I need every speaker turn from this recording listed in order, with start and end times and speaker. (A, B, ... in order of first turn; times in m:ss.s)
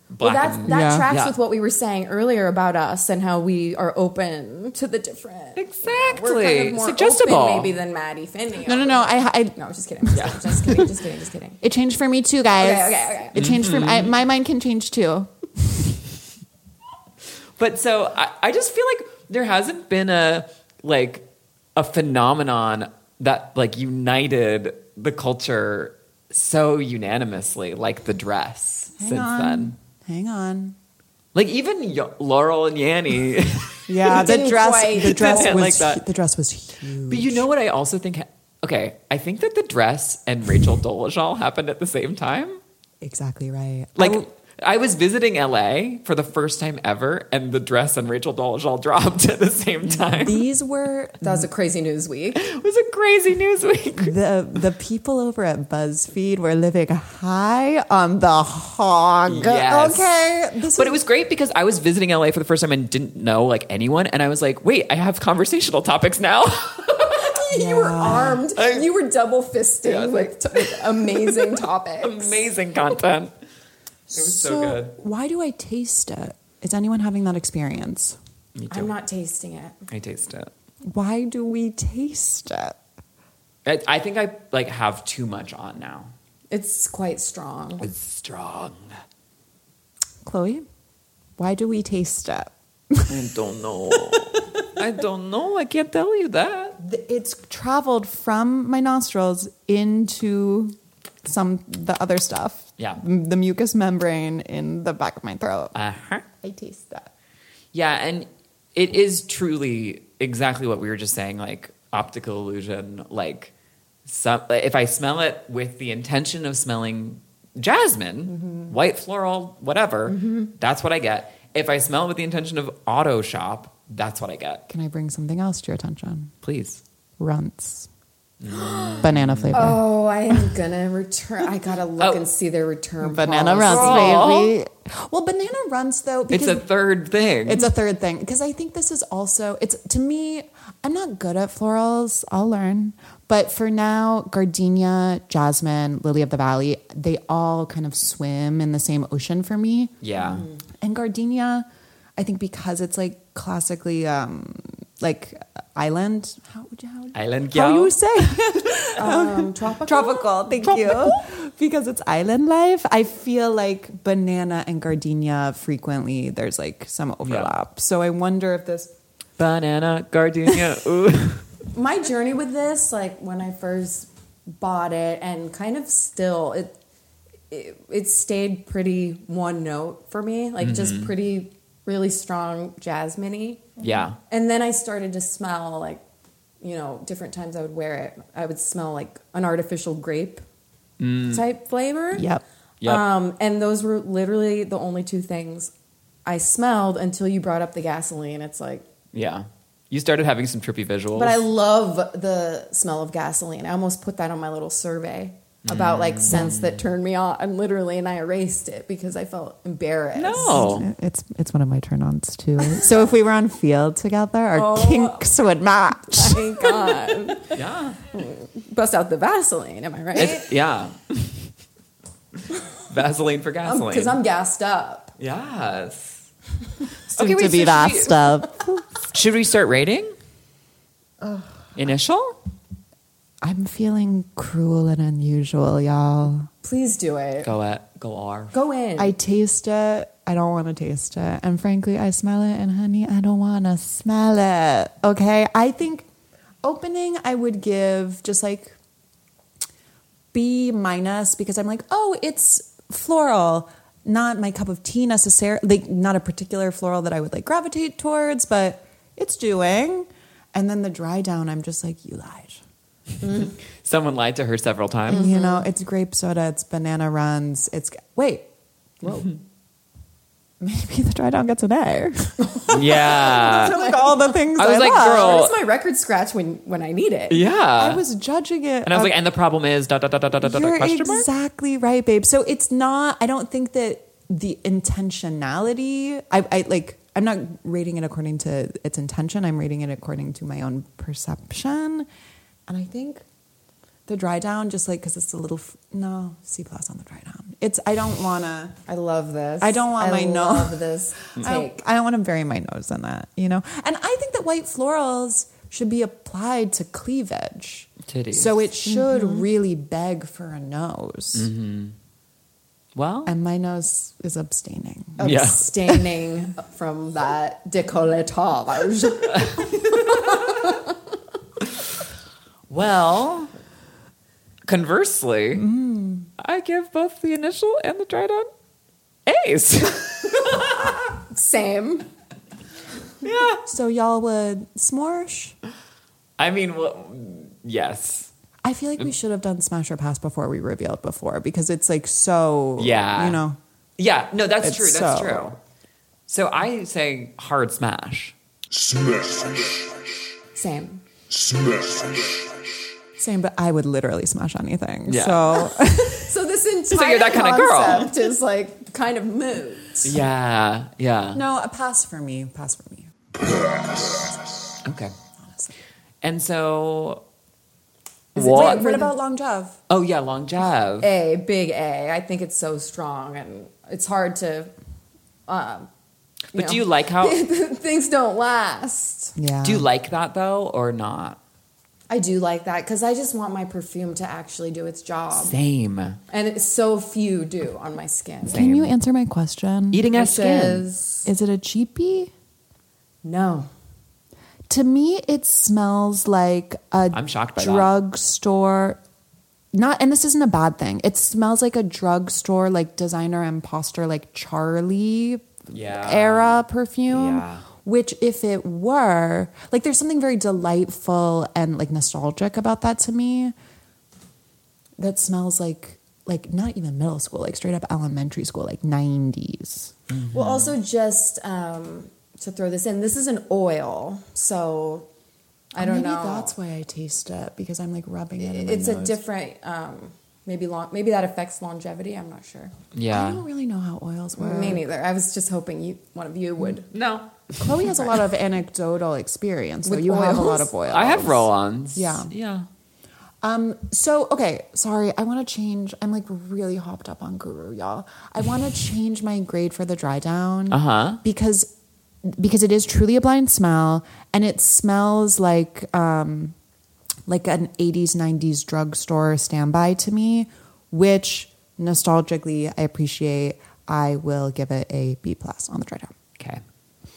0:00.1-0:01.4 A
0:00.2-0:11.6 B
0:00.6-0:01.1 C
0:05.6-0:07.8 A
0:08.6-0:10.9 C
0:10.1-0:10.6 A
0:11.6-0:16.0 C
0:12.6-0:13.4 B
0:13.4-0:14.2 A
0:17.6-0:21.2 A
0:21.8-0:29.8 A
0:29.0-0:30.8 C
0:31.3-0:33.9 A
0:33.9-0:37.5 C
0:34.0-0:35.7 B
0:35.0-0:36.0 A
0:37.1-0:42.6 A
0:43.0-0:44.3 C
0:44.0-0:50.4 A
0:49.9-0:51.5 C
0:51.2-0:52.4 B
0:52.4-0:54.2 A
0:54.0-1:01.0 C
0:59.3-1:00.1 A
1:00.7-1:07.3 A
1:07.1-1:12.4 B
1:07.5-1:08.4 C
1:08.6-1:08.9 A
1:09.8-1:13.3 A
1:14.1-1:14.9 A
1:14.1-1:18.2 C
1:18.6-1:18.9 A
1:18.7-1:19.8 B
1:19.9-1:20.5 A
1:20.9-1:22.8 C
1:23.6-1:26.1 A
1:26.5-1:27.9 B
1:27.8-1:29.0 A
1:30.2-1:30.7 C
1:31.4-1:33.3 C
1:33.1-1:36.8 A
1:33.9-1:34.4 C
1:36.8-1:45.8 C
1:45.8-1:46.2 A
1:46.4-1:47.1 C
1:47.7-1:53.5 A
1:54.1-2:04.6 A
1:58.3-1:58.7 C
2:00.1-2:00.5 B
2:04.7-2:06.3 C
2:06.4-2:06.8 A
2:07.2-2:07.9 C
2:08.4-2:09.8 A
2:08.5-2:14.3 B
2:09.0-2:09.8 C
2:12.0-2:12.2 A
2:13.0-2:16.7 C
2:13.6-2:14.6 A
2:16.3-2:17.7 A
2:17.4-2:29.9 C
2:30.0-2:30.5 A
2:30.2-2:30.6 B
2:30.7-2:48.9 C
2:37.1-2:38.0 A
2:39.0-2:40.6 B
2:40.8-2:41.1 A
2:47.2-2:47.5 A
2:49.4-2:51.5 A
2:51.7-2:56.8 B
2:57.5-3:06.0 B
3:00.6-3:01.1 A
3:03.8-3:04.2 A
3:06.6-3:10.4 B
3:11.0-3:11.4 A
3:11.3-3:12.3 B
3:12.2-3:12.4 C
3:12.8-3:15.7 B
3:16.3-3:18.8 B
3:19.1-3:21.4 A
3:21.2-3:30.7 B
3:25.6-3:26.8 A
3:30.2-3:30.9 A
3:30.3-3:37.4 C
3:34.5-3:35.3 B
3:36.1-3:37.6 B
3:37.5-3:38.0 A
3:38.1-3:40.5 B
3:40.2-3:41.5 A
3:42.8-3:44.2 A
3:43.6-3:45.1 B
3:45.2-3:46.2 A
3:47.1-3:48.8 C
3:47.1-3:48.4 A
3:49.1-3:50.1 A
3:51.8-3:52.4 A
3:53.4-3:56.5 C
3:56.6-3:57.5 B
3:57.4-3:58.5 A
3:58.5-3:59.2 B
3:59.0-4:06.1 C
4:06.6-4:08.8 C
4:10.3-4:22.6 C
4:23.2-4:23.5 B
4:23.8-4:25.3 A
4:25.1-4:28.5 C
4:25.1-4:25.7 B
4:29.0-4:29.3 C
4:30.6-4:35.4 C
4:32.6-4:37.4 B
4:32.7-4:33.8 A
4:34.6-4:35.6 A
4:37.3-4:38.0 A
4:37.8-4:39.2 C
4:38.9-4:41.3 A
4:40.4-4:52.1 C
4:52.7-4:53.2 C
4:54.1-4:58.8 C
4:58.9-5:01.8 B
4:59.6-5:00.8 C
5:01.4-5:11.5 C
5:08.1-5:08.6 A
5:08.8-5:09.4 B
5:11.4-5:12.0 A
5:13.0-5:13.3 A
5:13.3-5:16.0 C
5:15.2-5:21.0 B
5:15.2-5:15.7 A
5:19.4-5:20.4 A
5:22.7-5:23.5 A
5:24.7-5:25.7 A
5:25.6-5:26.3 C
5:26.4-5:28.5 A
5:29.3-5:30.9 A
5:30.6-5:32.1 B
5:33.2-5:33.6 A
5:33.6-5:35.6 C
5:36.4-5:38.3 A
5:38.6-5:43.6 C
5:42.8-5:43.4 A
5:44.0-5:45.6 A
5:44.6-5:45.6 C
5:46.3-5:48.4 A
5:50.6-5:51.0 B
5:53.2-5:56.3 C
5:55.1-5:55.6 A
5:55.8-6:00.2 B
5:56.9-5:58.1 A
6:00.0-6:01.4 A
6:01.3-6:03.1 C
6:04.8-6:05.1 A
6:05.4-6:05.7 C
6:06.2-6:07.2 A
6:08.4-6:09.0 A
6:08.4-6:09.8 C
6:08.4-6:09.1 B
6:09.9-6:11.1 A
6:11.0-6:14.7 B
6:15.5-6:15.9 B
6:16.5-6:17.4 A
6:16.5-6:19.4 B
6:19.4-6:19.9 C
6:19.6-6:21.4 A
6:22.1-6:25.6 B
6:25.3-6:26.2 A
6:26.3-6:28.6 B
6:28.5-6:30.1 C
6:28.5-6:28.9 A
6:29.9-6:30.9 A
6:30.1-6:31.3 B
6:31.3-6:32.3 C
6:33.2-6:33.7 B
6:34.7-6:39.0 C
6:37.1-6:37.9 A
6:39.7-6:53.5 C
6:45.7-6:47.6 A
6:55.0-6:59.9 C
7:00.1-7:00.7 A
7:00.3-7:05.1 B
7:05.7-7:06.5 B
7:05.8-7:09.2 C
7:08.4-7:12.7 B
7:12.9-7:13.4 A
7:13.1-7:14.8 C
7:14.4-7:16.9 B
7:16.9-7:17.6 A
7:17.6-7:22.3 C
7:19.8-7:20.7 B
7:20.9-7:22.7 A
7:23.4-7:31.7 C
7:30.7-7:31.2 A
7:32.2-7:36.6 C
7:37.3-7:46.1 C